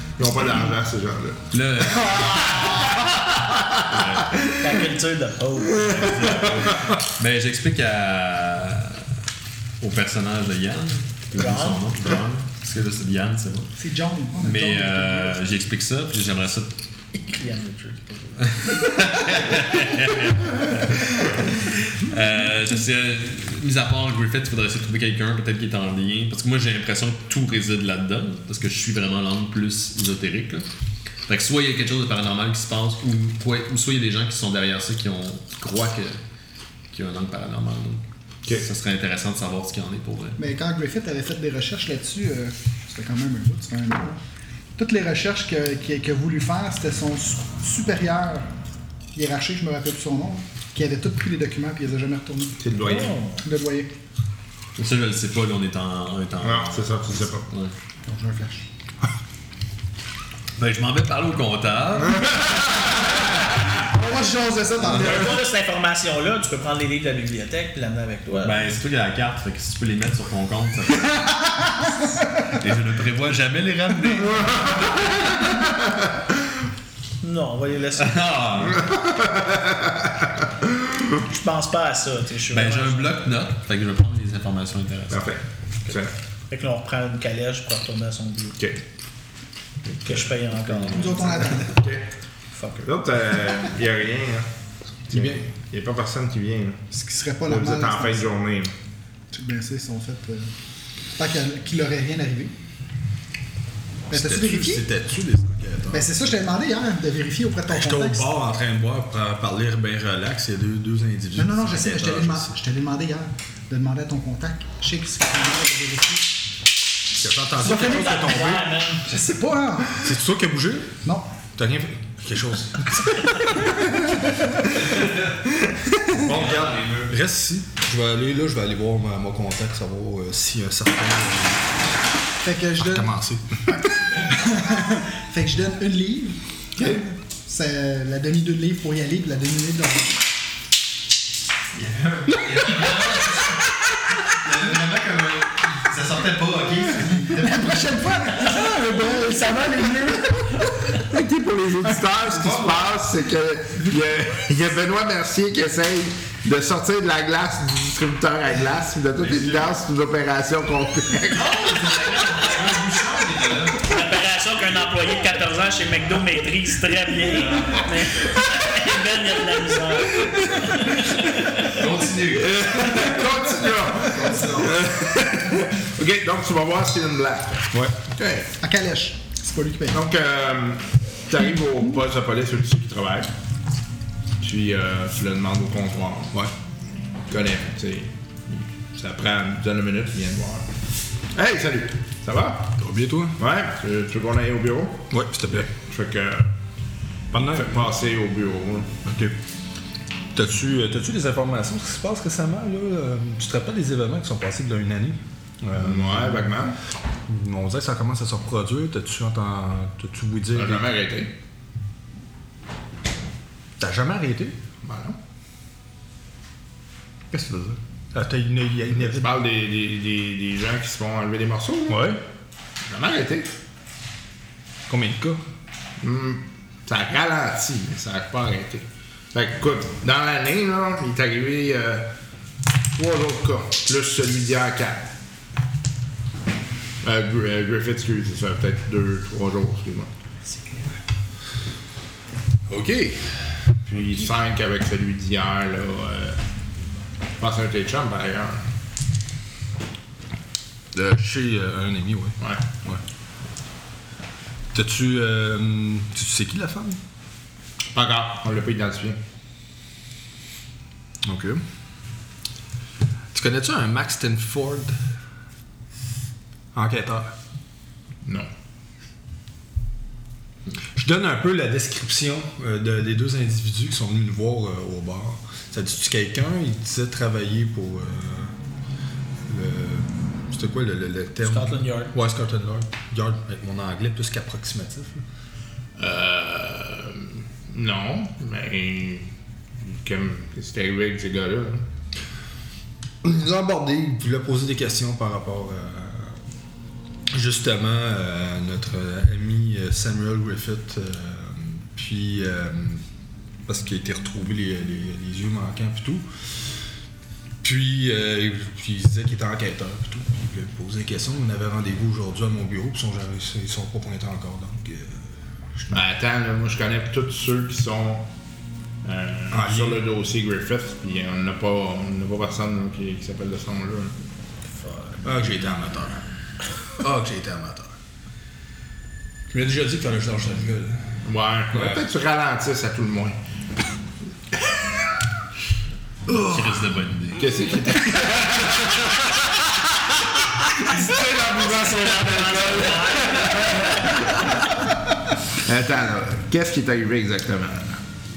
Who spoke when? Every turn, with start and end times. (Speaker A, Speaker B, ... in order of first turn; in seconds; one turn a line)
Speaker A: 0.2-1.4
Speaker B: 1.5-2.8
Speaker A: 2.5-4.5
Speaker B: 3.9-4.3
Speaker C: 4.6-6.2
Speaker B: 5.9-9.1
Speaker B: 9.8-13.7
Speaker C: 11.3-11.8
Speaker D: 13.8-15.3
Speaker B: 14.4-16.8
Speaker C: 17.1-18.5
Speaker B: 18.4-30.6
Speaker B: 31.3-36.2
Speaker B: 36.9-40.4
Speaker D: 40.4-44.2
Speaker D: 44.8-48.5
Speaker D: 49.1-52.6
Speaker A: 52.6-53.2
Speaker C: 52.8-53.4
Speaker D: 53.4-53.9
Speaker B: 54.8-57.7
Speaker A: 56.4-57.5
Speaker D: 58.0-58.6
Speaker B: 60.6-62.3
Speaker A: 62.2-63.1
Speaker D: 63.7-65.4
Speaker C: 64.9-68.6
Speaker B: 68.4-71.6
Speaker B: 72.4-75.4
Speaker A: 74.5-76.0
Speaker C: 77.2-78.2
Speaker B: 78.0-78.9
Speaker A: 78.7-81.2
Speaker C: 81.2-83.1
Speaker B: 82.5-85.3
Speaker A: 85.1-86.1
Speaker C: 86.5-88.6
Speaker A: 89.9-92.1
Speaker C: 90.0-91.5
Speaker D: 90.9-91.8
Speaker C: 92.5-92.9
Speaker A: 92.8-94.5
Speaker E: 95.1-95.4
Speaker A: 95.1-96.8
Speaker D: 96.9-98.3
Speaker A: 97.4-98.7
Speaker D: 99.3-100.5
Speaker D: 101.2-102.5
Speaker D: 104.1-104.9
Speaker E: 104.1-106.2
Speaker D: 105.9-108.3
Speaker E: 107.7-112.5
Speaker D: 111.3-116.3
Speaker E: 117.1-118.7
Speaker C: 117.6-119.0
Speaker D: 117.6-118.2
Speaker D: 119.0-120.1
Speaker E: 120.0-121.0
Speaker E: 121.5-124.5
Speaker B: 124.9-125.3
Speaker E: 126.0-131.7
Speaker B: 126.2-127.2
Speaker D: 132.4-133.2
Speaker E: 132.8-133.6
Speaker D: 133.7-140.2
Speaker A: 136.8-137.0
Speaker B: 141.7-143.5
Speaker B: 144.3-147.5
Speaker D: 147.3-150.7
Speaker A: 150.9-161.7
Speaker B: 161.3-163.9
Speaker C: 163.8-171.8
Speaker B: 167.4-167.9
Speaker B: 171.6-173.2
Speaker A: 172.4-178.5
Speaker E: 174.2-174.5
Speaker D: 178.6-180.0
Speaker A: 179.9-183.3
Speaker A: 184.4-186.4
Speaker A: 187.3-188.1
Speaker A: 188.9-190.7
Speaker A: 191.3-192.8
Speaker E: 192.8-193.4
Speaker A: 193.4-196.5
Speaker E: 195.1-195.7
Speaker E: 197.3-197.9
Speaker A: 197.3-199.0
Speaker E: 199.0-199.3
Speaker E: 200.3-206.5
Speaker A: 205.8-206.8
Speaker E: 207.2-210.9
Speaker A: 210.5-211.3
Speaker E: 213.8-214.6
Speaker A: 214.8-215.2
Speaker E: 217.3-219.3
Speaker A: 218.9-222.1
Speaker E: 221.9-222.2
Speaker A: 222.9-223.5
Speaker E: 224.9-225.4
Speaker A: 226.0-232.1
Speaker A: 232.9-235.1
Speaker A: 237.0-240.1
Speaker E: 242.7-243.8
Speaker A: 243.8-246.4
Speaker A: 247.4-248.7
Speaker E: 250.9-253.0
Speaker A: 252.4-252.6
Speaker E: 254.7-257.0
Speaker A: 257.9-259.2
Speaker E: 261.2-261.6
Speaker E: 263.3-265.0
Speaker E: 266.7-267.3
Speaker E: 270.9-278.5
Speaker E: 279.5-285.2
Speaker C: 281.4-282.1
Speaker A: 286.0-291.9
Speaker E: 293.2-296.4
Speaker E: 297.3-303.0
Speaker E: 303.7-306.8
Speaker E: 307.6-315.3
Speaker A: 315.9-318.3
Speaker A: 319.0-324.1
Speaker E: 319.5-320.0
Speaker E: 324.8-326.3
Speaker E: 326.9-327.9
Speaker E: 329.5-331.2
Speaker A: 331.2-333.4
Speaker E: 331.7-332.0
Speaker E: 336.3-337.0
Speaker B: 336.5-337.5
Speaker A: 337.4-339.3
Speaker A: 340.9-344.7
Speaker C: 341.6-344.5
Speaker A: 345.5-348.0